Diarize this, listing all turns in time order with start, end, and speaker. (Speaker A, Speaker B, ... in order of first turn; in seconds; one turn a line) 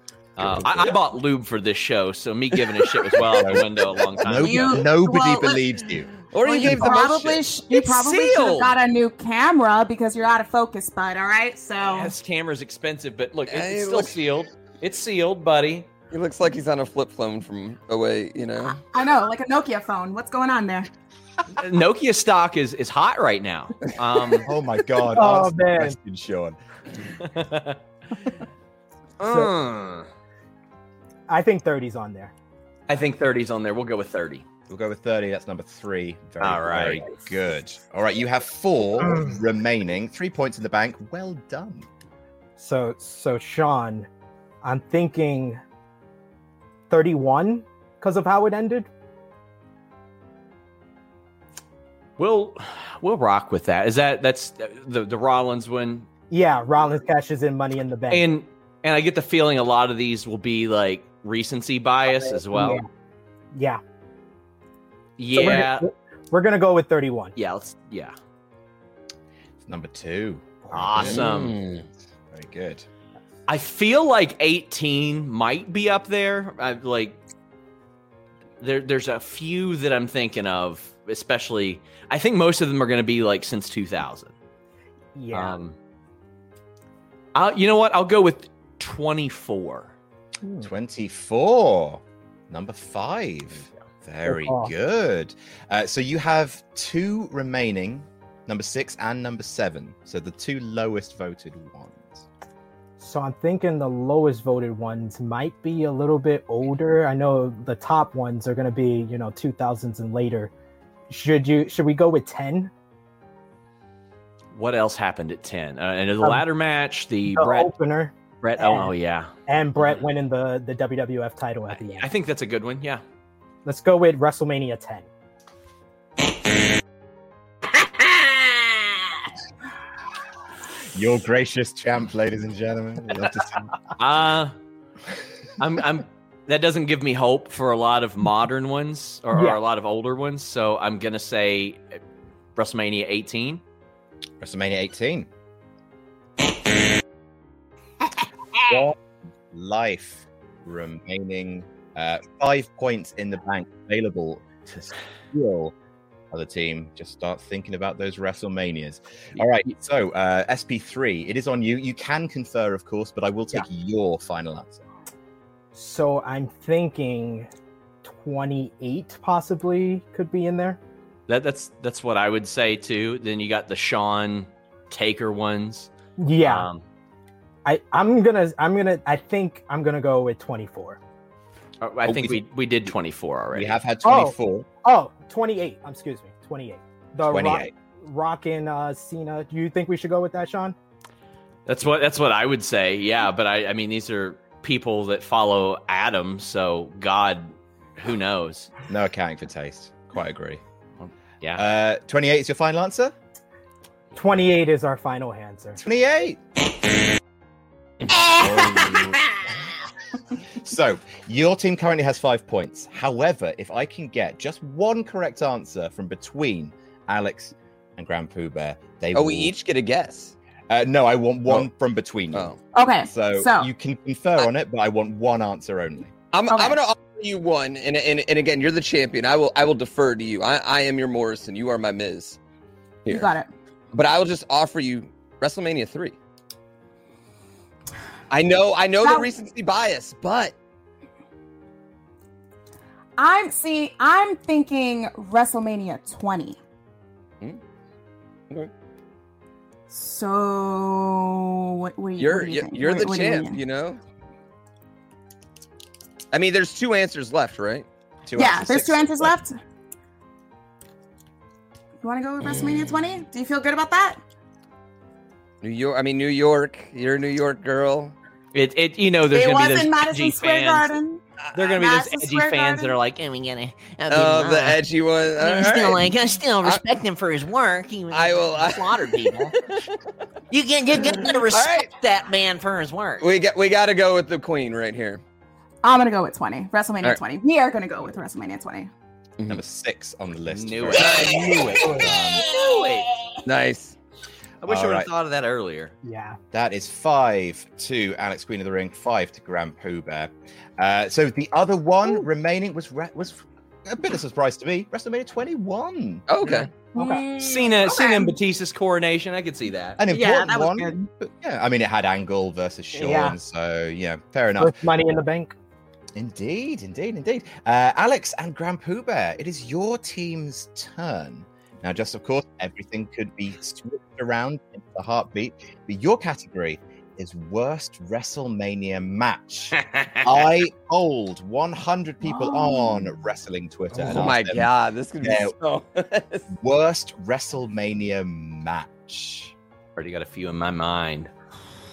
Speaker A: 0.4-4.8
Speaker B: 0.4-1.0
Speaker B: 3.2-7.1
Speaker C: 4.4-5.6
Speaker D: 6.3-7.4
Speaker C: 6.5-12.1
Speaker A: 7.7-8.8
Speaker A: 11.8-15.9
Speaker D: 13.5-14.2
Speaker D: 16.1-18.8
Speaker C: 18.8-20.9
Speaker A: 21.6-24.5
Speaker B: 24.4-26.6
Speaker E: 25.1-26.0
Speaker A: 27.2-27.8
Speaker A: 29.2-30.1
Speaker E: 29.2-29.5
Speaker E: 31.3-32.3
Speaker A: 32.9-34.4
Speaker B: 34.7-41.9
Speaker A: 36.4-37.1
Speaker E: 42.6-44.1
Speaker E: 44.6-45.6
Speaker E: 46.9-48.9
Speaker A: 52.2-56.1
Speaker E: 56.3-58.3
Speaker A: 58.1-62.8
Speaker E: 62.1-62.9
Speaker E: 63.5-63.8
Speaker A: 65.2-65.9
Speaker E: 65.3-67.3
Speaker A: 67.3-68.1
Speaker B: 69.6-71.5
Speaker A: 70.7-71.6
Speaker D: 71.0-71.8
Speaker B: 72.3-72.8
Speaker A: 73.5-77.2
Speaker A: 78.6-84.3
Speaker E: 85.1-85.6
Speaker A: 85.3-85.7
Speaker A: 87.3-89.9
Speaker B: 90.6-102.3
Speaker E: 94.2-94.7
Speaker E: 103.0-110.5
Speaker E: 111.1-112.7
Speaker A: 114.5-117.7
Speaker E: 117.3-118.9
Speaker A: 118.4-120.0
Speaker E: 119.5-122.1
Speaker A: 121.7-123.0
Speaker E: 123.6-125.1
Speaker B: 130.9-133.7
Speaker A: 134.0-134.5
Speaker A: 135.6-141.8
Speaker E: 139.3-139.6
Speaker A: 142.6-143.6
Speaker B: 144.4-145.3
Speaker B: 148.6-148.9
Speaker B: 149.5-155.7
Speaker B: 156.3-164.8
Speaker E: 165.7-167.5
Speaker E: 168.0-170.8
Speaker A: 171.3-176.8
Speaker E: 176.2-176.7
Speaker E: 177.6-181.0
Speaker A: 181.8-183.8
Speaker B: 182.0-182.4
Speaker B: 183.5-184.7
Speaker E: 184.0-190.7
Speaker B: 187.3-187.7
Speaker A: 191.7-198.7
Speaker B: 198.9-200.6
Speaker A: 201.0-201.6
Speaker B: 201.5-203.1
Speaker E: 204.1-205.8
Speaker B: 205.8-206.4
Speaker B: 208.3-209.3
Speaker B: 210.6-219.5
Speaker D: 219.1-220.3
Speaker B: 220.7-222.5
Speaker D: 222.3-222.6
Speaker C: 222.7-223.7
Speaker B: 223.1-226.1
Speaker D: 226.3-232.4
Speaker C: 226.5-226.8
Speaker D: 233.0-233.3
Speaker C: 233.1-233.5
Speaker D: 233.9-236.2
Speaker D: 238.3-240.5
Speaker C: 239.0-239.3
Speaker C: 243.2-246.6
Speaker C: 249.9-253.6
Speaker D: 252.2-254.0
Speaker D: 256.3-257.9
Speaker B: 258.2-259.4
Speaker C: 258.4-259.6
Speaker C: 262.0-264.2
Speaker D: 262.4-262.9
Speaker D: 265.6-268.1
Speaker A: 268.5-270.9
Speaker C: 269.3-273.0
Speaker A: 271.5-273.0
Speaker F: 273.0-279.5
Speaker D: 274.1-276.9
Speaker D: 278.1-279.8
Speaker F: 280.5-283.3
Speaker D: 281.2-281.9
Speaker D: 283.2-285.2
Speaker C: 285.8-288.9
Speaker B: 289.5-292.4
Speaker A: 290.5-293.1
Speaker E: 291.8-292.1
Speaker C: 292.4-292.8
Speaker D: 293.4-293.9
Speaker A: 294.6-295.9
Speaker B: 294.6-295.1
Speaker E: 296.0-296.4
Speaker B: 296.5-306.2
Speaker D: 306.3-306.7
Speaker E: 306.9-307.2
Speaker C: 306.9-308.3
Speaker A: 307.4-310.0
Speaker B: 310.0-314.8
Speaker C: 310.1-311.1
Speaker E: 312.9-313.4
Speaker E: 314.6-315.5
Speaker B: 316.1-334.7
Speaker C: 332.4-332.8
Speaker D: 333.9-336.5
Speaker B: 335.2-335.5
Speaker B: 336.5-339.5
Speaker A: 339.9-341.3